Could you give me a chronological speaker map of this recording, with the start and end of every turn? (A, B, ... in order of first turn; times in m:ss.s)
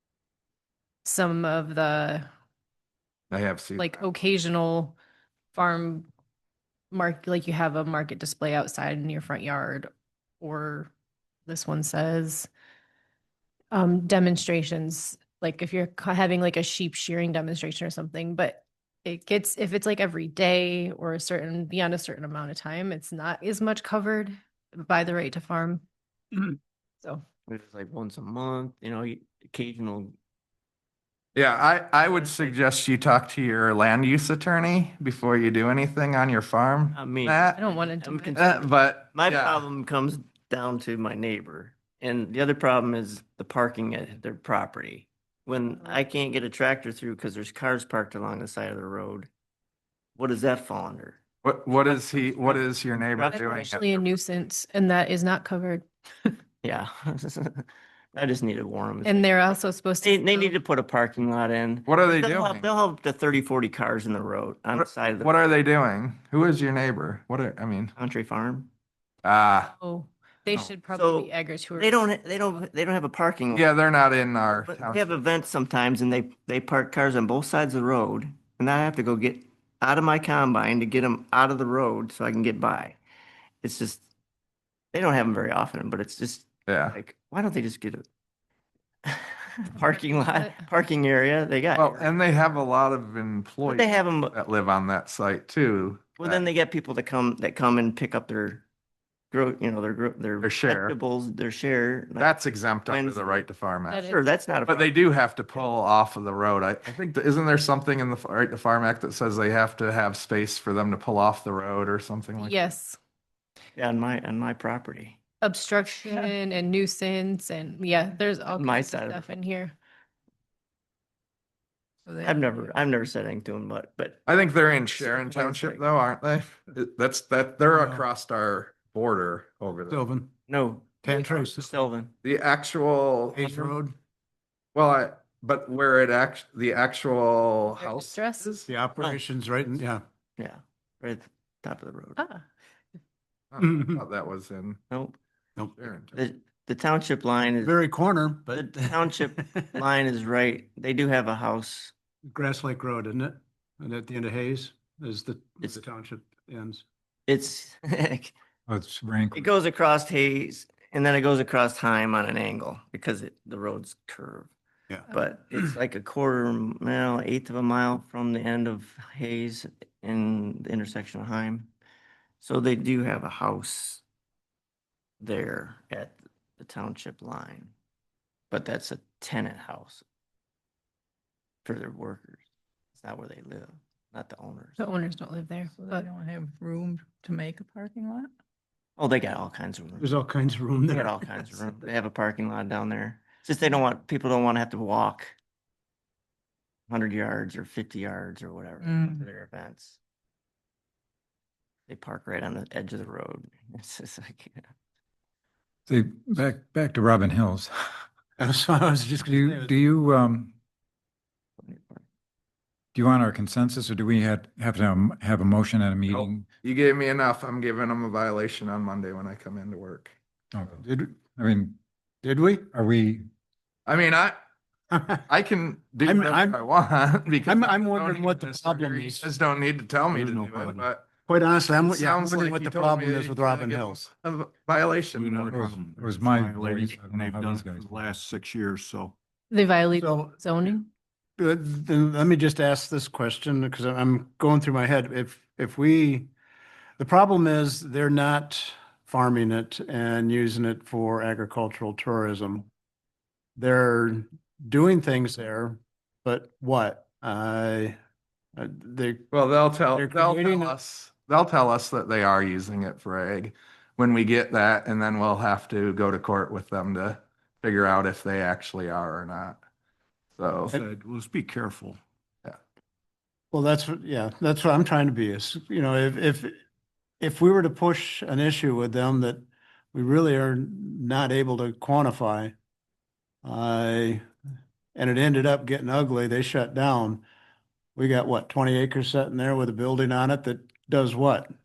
0:01.0-0:02.3 A
0:03.3-0:04.0 B
0:03.8-0:05.0 A
0:05.5-0:06.1 A
0:06.9-0:09.9 A
0:10.4-0:10.9 A
0:11.5-0:12.5 A
0:13.7-0:25.8 A
0:26.3-0:27.2 A
0:27.5-0:30.1 C
0:31.3-0:37.6 B
0:32.0-0:32.6 C
0:36.9-0:49.3 C
0:37.6-0:38.4 A
0:38.3-0:39.6 B
0:50.2-0:53.8 C
0:51.4-0:54.0 B
0:53.3-0:56.3 A
0:56.6-0:59.3 C
0:59.0-1:00.6 A
1:00.0-1:05.3 C
1:01.8-1:02.7 B
1:04.7-1:07.9 B
1:08.0-1:08.7 C
1:09.2-1:09.7 B
1:09.8-1:12.1 A
1:10.9-1:13.7 C
1:13.5-1:15.2 B
1:14.6-1:23.0 C
1:23.6-1:24.0 C
1:24.9-1:28.0 C
1:26.7-1:27.0 B
1:29.0-1:32.1 C
1:29.8-1:30.6 A
1:31.7-1:36.5 B
1:33.6-1:34.4 C
1:36.2-1:38.6 C
1:39.3-1:42.3 C
1:40.4-1:41.0 B
1:42.2-1:44.1 B
1:42.8-1:43.4 C
1:43.9-1:44.2 A
1:44.0-1:44.9 C
1:44.6-1:52.6 B
1:52.4-1:53.0 A
1:53.8-1:55.2 C
1:55.4-1:59.7 A
1:58.6-1:59.2 C
2:02.1-2:02.4 D
2:02.2-2:04.2 C
2:04.2-2:10.0 B
2:05.0-2:05.8 C
2:07.7-2:08.0 E
2:09.9-2:10.3 E
2:10.5-2:12.1 C
2:11.0-2:11.8 E
2:12.2-2:13.7 B
2:13.3-2:13.9 E
2:14.7-2:18.7 B
2:17.8-2:18.5 A
2:18.7-2:20.0 E
2:20.4-2:22.2 C
2:22.2-2:22.4 A
2:23.5-2:24.8 B
2:23.6-2:24.0 E
2:25.8-2:26.2 B
2:26.1-2:27.7 C
2:27.6-2:29.8 E
2:28.5-2:31.9 C
2:32.3-2:36.8 E
2:37.3-2:38.3 C
2:38.7-2:39.5 F
2:39.3-2:44.5 C
2:45.1-2:51.7 C
2:52.4-2:54.0 C
2:55.2-2:57.7 C
2:58.5-3:00.0 C
3:01.6-3:02.4 C
3:03.0-3:04.8 C
3:04.8-3:06.1 A
3:05.7-3:08.3 D
3:09.0-3:10.2 C
3:10.0-3:11.2 E
3:10.9-3:15.3 C
3:16.9-3:20.0 C
3:18.8-3:19.2 D
3:21.9-3:24.6 C
3:25.9-3:27.7 F
3:28.4-3:29.8 E
3:29.2-3:30.5 F
3:31.6-3:32.0 C
3:32.9-3:36.5 F
3:36.1-3:40.1 B
3:40.5-3:41.8 F
3:40.8-3:41.2 E
3:42.2-3:42.7 E
3:42.7-3:43.3 F
3:43.9-3:44.4 B
3:44.9-3:45.2 E
3:45.3-3:51.0 B
3:46.0-3:46.6 E
3:47.4-3:49.3 E
3:50.2-3:50.7 E
3:50.3-3:50.8 G
3:51.3-3:54.0 E
3:51.8-3:55.6 B
3:55.1-3:59.2 G
3:55.5-3:58.0 F
3:59.5-4:00.8 A
3:59.9-4:00.4 E
4:01.4-4:06.3 E
4:07.0-4:12.7 E
4:13.6-4:18.0 E
4:18.6-4:19.3 E
4:19.3-4:29.6 B
4:19.9-4:20.8 E
4:30.4-4:30.8 B
4:30.6-4:32.0 G
4:33.5-4:36.5 E
4:37.2-4:42.5 E
4:43.4-4:44.2 E
4:44.9-4:47.2 E
4:48.0-4:51.5 E